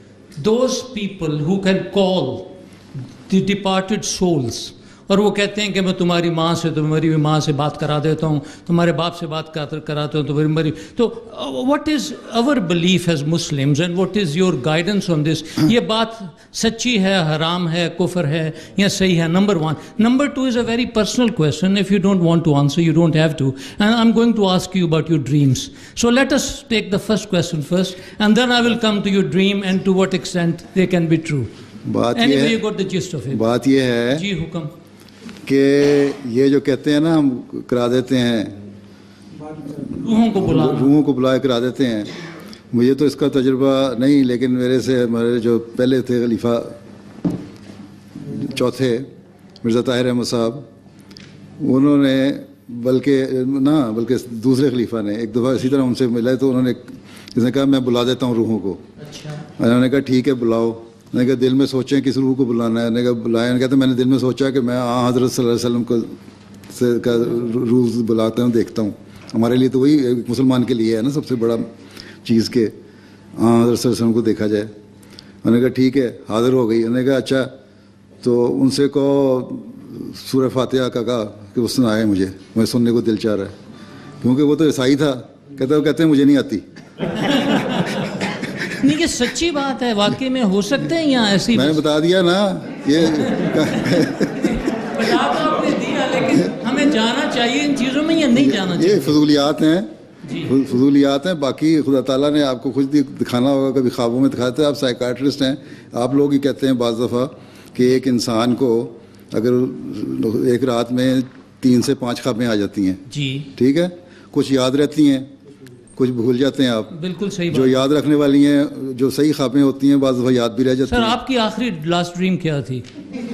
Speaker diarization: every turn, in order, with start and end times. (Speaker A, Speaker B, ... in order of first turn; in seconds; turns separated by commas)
Speaker A: 0.3-2.6, Speaker A: 3.3-31.5, Speaker B: 31.9-32.6, Speaker A: 32.1-33.4, Speaker B: 33.3-34.2, Speaker A: 34.1-34.7, Speaker B: 35.4-38.5, Speaker A: 39.8-40.9, Speaker B: 40.3-42.1, Speaker B: 42.7-46.7, Speaker B: 48.2-49.1, Speaker B: 49.6-50.6, Speaker B: 51.6-58.8, Speaker A: 59.1-59.4, Speaker B: 59.5-66.1, Speaker B: 66.7-71.6, Speaker B: 72.2-72.7, Speaker B: 73.4-74.7, Speaker B: 75.4-77.5, Speaker B: 78.2-83.5, Speaker B: 84.2-86.6, Speaker A: 87.1-91.8, Speaker B: 91.5-94.5, Speaker A: 93.4-99.2, Speaker B: 98.3-99.9, Speaker A: 100.2-100.5, Speaker B: 100.4-113.0, Speaker A: 113.1-113.5, Speaker B: 113.5-115.3, Speaker B: 116.0-116.9, Speaker A: 116.9-117.8, Speaker B: 117.5-121.2, Speaker A: 120.8-122.9